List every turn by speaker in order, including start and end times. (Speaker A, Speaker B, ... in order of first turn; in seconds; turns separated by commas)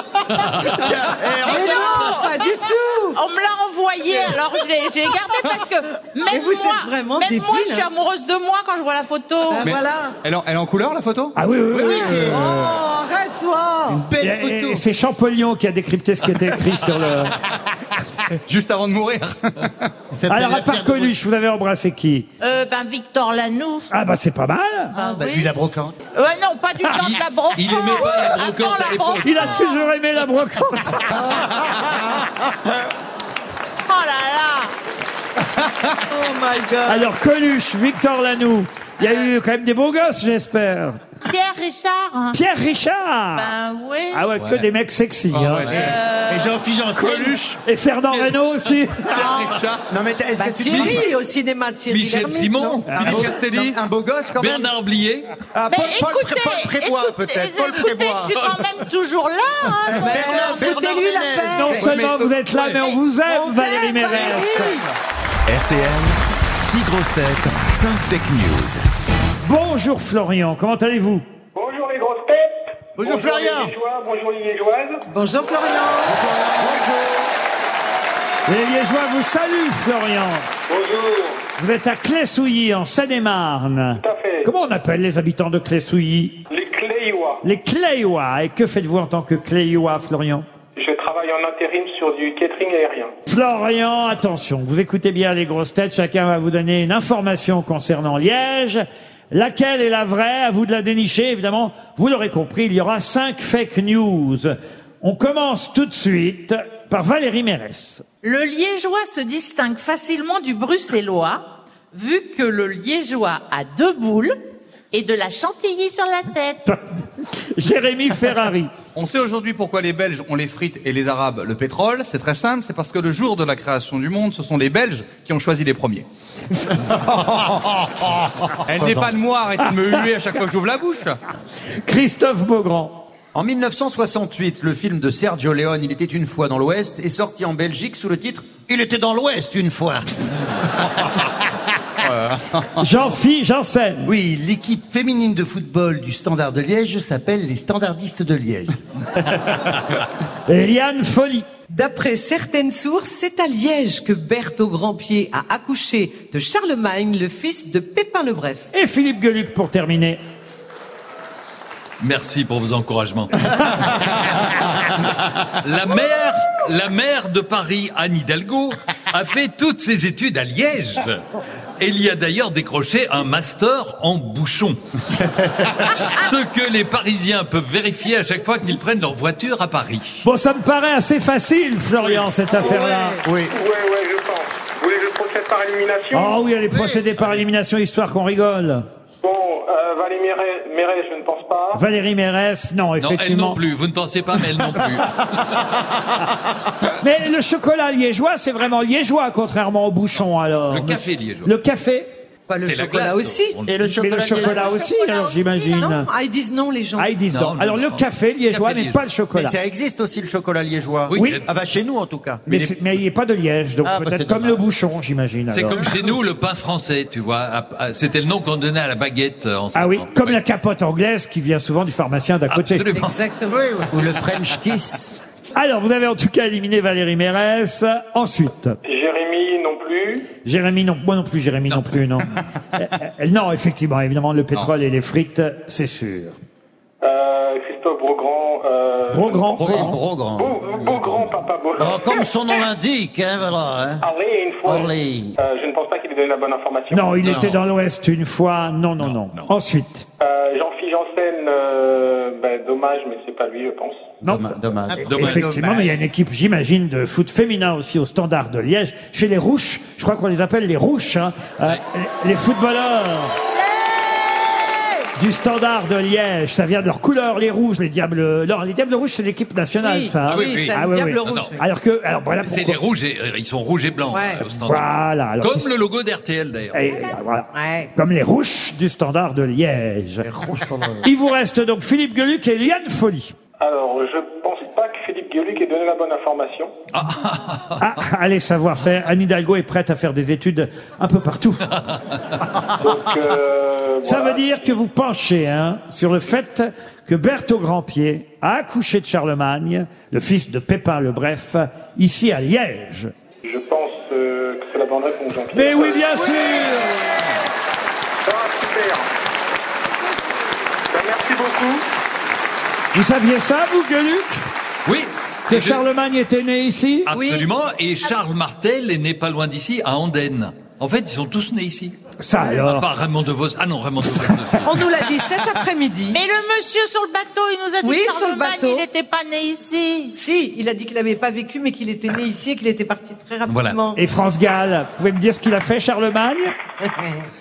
Speaker A: 0.4-1.8, Speaker B: 0.7-2.1, Speaker C: 1.4-9.7, Speaker D: 1.4-3.2, Speaker D: 4.0-4.6, Speaker D: 6.2-7.9, Speaker D: 9.5-10.1, Speaker E: 9.6-11.3, Speaker F: 11.3-12.5, Speaker B: 11.7-12.8, Speaker D: 12.1-14.1, Speaker B: 13.9-14.8, Speaker F: 14.2-17.4, Speaker E: 18.4-19.9, Speaker B: 20.1-21.1, Speaker F: 20.3-22.3, Speaker C: 22.4-23.9, Speaker F: 23.9-24.9, Speaker C: 24.9-25.5, Speaker B: 24.9-25.9, Speaker C: 26.1-29.8, Speaker G: 27.0-29.6, Speaker F: 29.2-31.3, Speaker B: 31.5-31.8, Speaker C: 33.9-34.7, Speaker D: 36.1-37.1, Speaker F: 36.9-41.0, Speaker C: 41.2-42.4, Speaker F: 42.3-43.5, Speaker C: 43.3-44.3, Speaker F: 44.1-45.7, Speaker E: 45.3-45.9, Speaker B: 45.6-47.4, Speaker C: 45.7-46.6, Speaker F: 47.0-49.3, Speaker E: 47.1-47.6, Speaker E: 49.1-49.8, Speaker C: 49.2-49.5, Speaker A: 49.9-51.1, Speaker D: 50.4-52.9, Speaker E: 50.7-51.0, Speaker G: 51.9-53.2, Speaker F: 52.9-53.3, Speaker E: 52.9-53.8, Speaker A: 53.0-54.7, Speaker G: 54.4-55.3, Speaker B: 55.6-58.4, Speaker C: 55.7-60.8, Speaker B: 59.9-61.9, Speaker D: 60.0-61.9, Speaker F: 61.5-64.7, Speaker E: 61.7-62.9, Speaker D: 63.2-64.8, Speaker C: 63.8-64.6, Speaker H: 65.5-68.8, Speaker F: 69.4-71.2, Speaker I: 71.5-75.0, Speaker B: 73.0-73.7, Speaker D: 75.1-76.2, Speaker B: 76.0-77.1, Speaker F: 78.5-80.5, Speaker I: 80.7-81.4, Speaker F: 81.6-86.4, Speaker I: 84.0-84.5, Speaker I: 86.5-87.4, Speaker F: 87.4-90.5, Speaker I: 90.8-93.1, Speaker F: 93.2-108.0, Speaker C: 108.2-114.3, Speaker C: 114.9-116.7, Speaker F: 116.7-118.7, Speaker E: 118.9-126.0, Speaker E: 126.9-127.4, Speaker E: 128.6-131.2, Speaker A: 128.8-129.1, Speaker F: 131.8-133.1, Speaker A: 133.3-140.1, Speaker E: 142.0-143.0, Speaker F: 142.8-144.1, Speaker B: 144.1-149.4, Speaker F: 150.5-151.5, Speaker D: 151.7-158.7, Speaker F: 158.7-160.2, Speaker G: 162.0-171.2, Speaker G: 171.8-174.8, Speaker G: 175.8-180.2, Speaker F: 180.2-183.2, Speaker D: 182.7-183.2, Speaker I: 183.5-186.4, Speaker F: 186.1-188.8, Speaker B: 186.7-187.0, Speaker I: 189.2-191.8, Speaker F: 191.7-193.6, Speaker G: 193.0-195.6, Speaker F: 194.8-195.0, Speaker F: 197.0-202.1, Speaker G: 200.7-201.5, Speaker D: 202.5-203.6, Speaker G: 202.6-203.7, Speaker A: 203.7-204.9, Speaker F: 203.8-206.1, Speaker D: 204.4-207.2, Speaker F: 207.0-209.6, Speaker G: 207.3-209.0, Speaker A: 209.3-212.7, Speaker G: 211.1-211.5, Speaker F: 211.1-211.4, Speaker F: 212.5-215.9, Speaker A: 213.8-214.6, Speaker G: 215.5-220.4, Speaker F: 219.7-222.9, Speaker G: 222.5-223.3, Speaker D: 222.9-223.6, Speaker B: 223.5-223.9, Speaker A: 223.9-225.1, Speaker F: 225.5-228.8, Speaker I: 228.8-230.3, Speaker F: 230.4-236.3, Speaker G: 231.7-231.9, Speaker I: 237.0-239.6, Speaker F: 239.1-239.9, Speaker E: 239.6-239.9, Speaker A: 239.6-240.6, Speaker I: 240.3-242.6, Speaker G: 240.7-241.4, Speaker A: 241.8-244.0, Speaker I: 244.0-247.2, Speaker A: 244.6-245.4, Speaker F: 246.9-250.1, Speaker G: 247.2-247.6, Speaker A: 247.2-247.5, Speaker G: 249.0-249.5, Speaker I: 250.2-254.1, Speaker A: 254.2-255.1, Speaker F: 254.2-263.4, Speaker B: 254.9-256.0, Speaker G: 255.1-255.5, Speaker D: 263.6-265.1, Speaker F: 265.1-272.8, Speaker D: 269.8-271.6, Speaker G: 270.2-271.5, Speaker G: 272.4-276.8, Speaker D: 274.1-274.4, Speaker F: 274.4-275.7, Speaker F: 276.7-280.3, Speaker D: 277.5-277.9, Speaker F: 281.0-283.3, Speaker I: 283.6-286.7, Speaker G: 286.9-287.9, Speaker F: 287.8-291.7, Speaker I: 292.8-294.7, Speaker F: 294.0-303.1, Speaker I: 303.4-306.7, Speaker F: 305.5-307.2, Speaker I: 308.2-309.1, Speaker I: 310.9-311.8, Speaker F: 312.9-314.4, Speaker G: 314.9-315.8, Speaker F: 315.5-317.1, Speaker G: 317.1-325.0, Speaker D: 317.2-317.4, Speaker F: 322.2-322.9, Speaker D: 324.6-326.2, Speaker C: 326.1-330.2, Speaker D: 327.8-328.8, Speaker D: 330.1-334.0, Speaker G: 333.4-333.8, Speaker F: 333.9-336.5